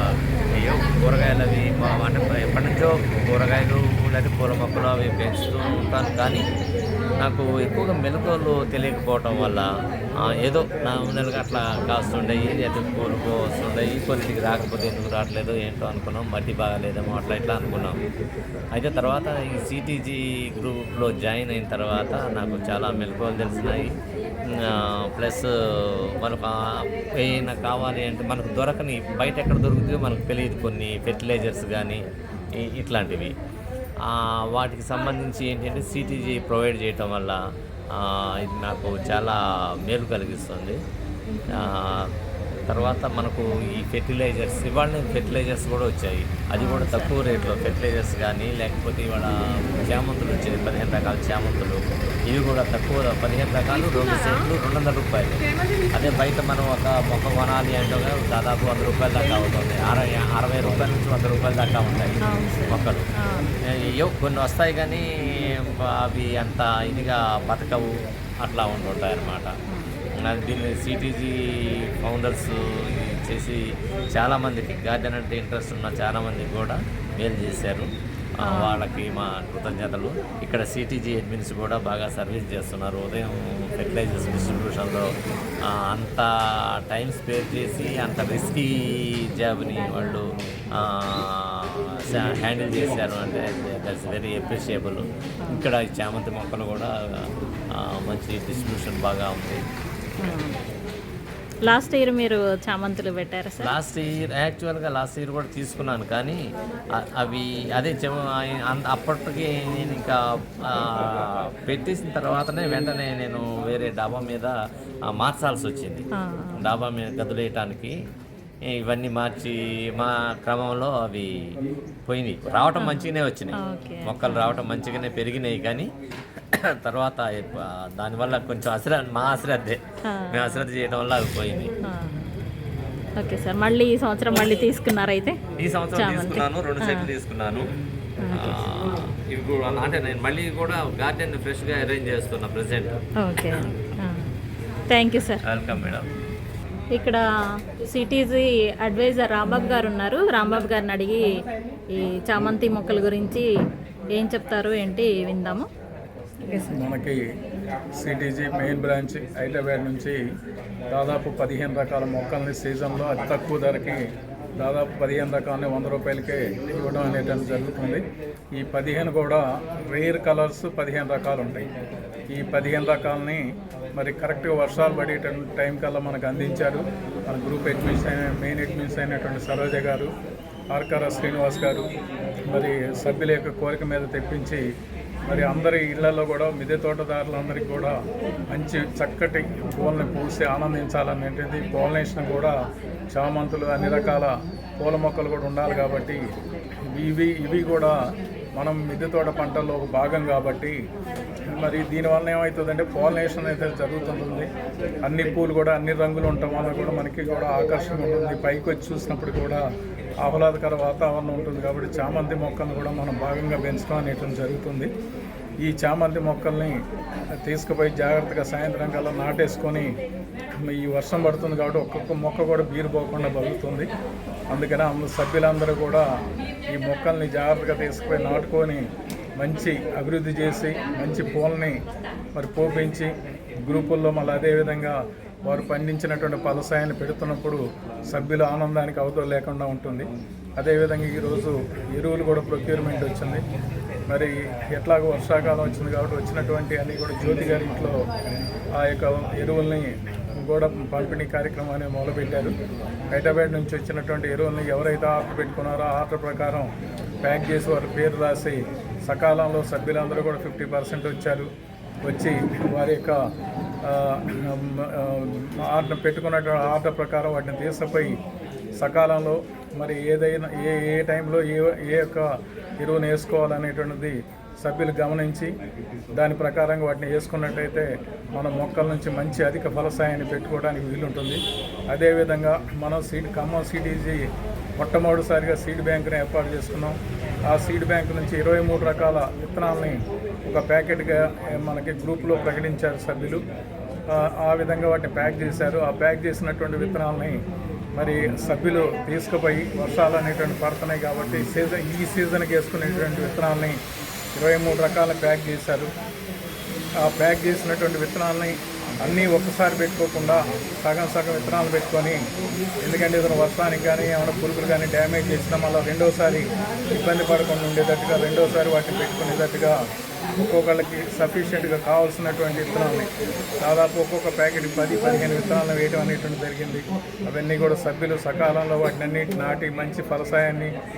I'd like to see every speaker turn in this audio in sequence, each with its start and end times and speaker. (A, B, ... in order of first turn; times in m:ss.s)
0:00.6-0:06.4 A
0:07.2-0:09.6 A
0:10.4-0:18.0 A
0:18.7-0:23.9 A
0:24.5-0:32.0 A
0:32.6-0:33.3 A
0:34.0-0:37.4 A
0:37.9-0:39.4 A
0:39.9-0:40.8 A
0:41.5-0:42.1 A
0:42.7-1:02.2 A
0:46.6-0:47.6 B
1:02.2-1:03.5 B
1:02.7-1:03.0 A
1:04.0-1:07.9 A
1:08.4-1:09.5 A
1:10.2-1:13.6 A
1:14.1-1:17.9 A
1:18.4-1:18.8 B
1:18.5-1:25.0 A
1:25.9-1:26.2 A
1:26.8-1:30.2 A
1:30.7-1:36.9 A
1:37.7-1:39.6 A
1:40.2-1:40.6 B
1:41.7-1:43.8 B
1:43.6-1:46.4 A
1:46.9-1:54.5 A
1:55.2-1:56.0 A
1:56.1-1:56.7 B
1:56.6-1:57.9 A
1:58.7-2:01.3 A
2:02.1-2:03.5 A
2:02.8-2:04.6 B
2:04.0-2:05.9 A
2:06.5-2:11.7 A
2:10.1-2:10.6 B
2:11.8-2:12.3 B
2:13.2-2:15.4 B
2:15.6-2:17.6 A
2:15.9-2:17.1 B
2:18.2-2:18.6 B
2:18.3-2:23.0 A
2:23.2-2:24.3 B
2:24.9-2:25.4 B
2:25.5-2:26.1 A
2:26.9-2:27.2 B
2:27.8-2:31.2 B
2:31.9-2:33.5 B
2:34.1-2:35.7 B
2:36.5-2:37.2 C
2:38.0-2:40.2 C
2:40.9-2:44.0 C
2:44.6-2:51.7 C
2:52.3-2:53.4 C
2:54.0-3:00.1 C
3:00.7-3:01.9 C
3:02.5-3:04.6 C
3:05.3-3:08.0 C
3:08.5-3:12.5 C
3:13.1-3:16.2 C
3:16.9-3:17.9 C
3:18.6-3:20.8 C
3:21.6-3:24.5 C
3:25.0-3:29.6 C
3:30.2-3:34.9 C
3:35.6-3:36.8 C
3:37.4-3:39.9 C
3:40.6-3:43.9 C
3:44.5-3:46.0 C
3:46.7-3:48.8 C
3:49.4-3:51.7 C
3:52.3-3:53.1 C
3:53.6-4:03.4 C
4:04.1-4:08.0 C
4:08.7-4:09.9 C
4:10.4-4:12.5 C
4:13.1-4:16.7 C
4:17.2-4:21.5 C
4:22.0-4:23.1 C
4:23.8-4:28.2 C
4:28.8-4:32.2 C
4:32.8-4:35.5 C
4:36.2-4:44.2 C
4:44.8-4:47.0 C
4:47.5-4:53.4 C
4:54.1-4:57.4 C
4:58.0-5:03.8 C
5:04.4-5:05.9 C
5:07.0-5:12.2 C
5:12.8-5:19.8 C
5:20.4-5:23.0 C
5:23.6-5:30.7 C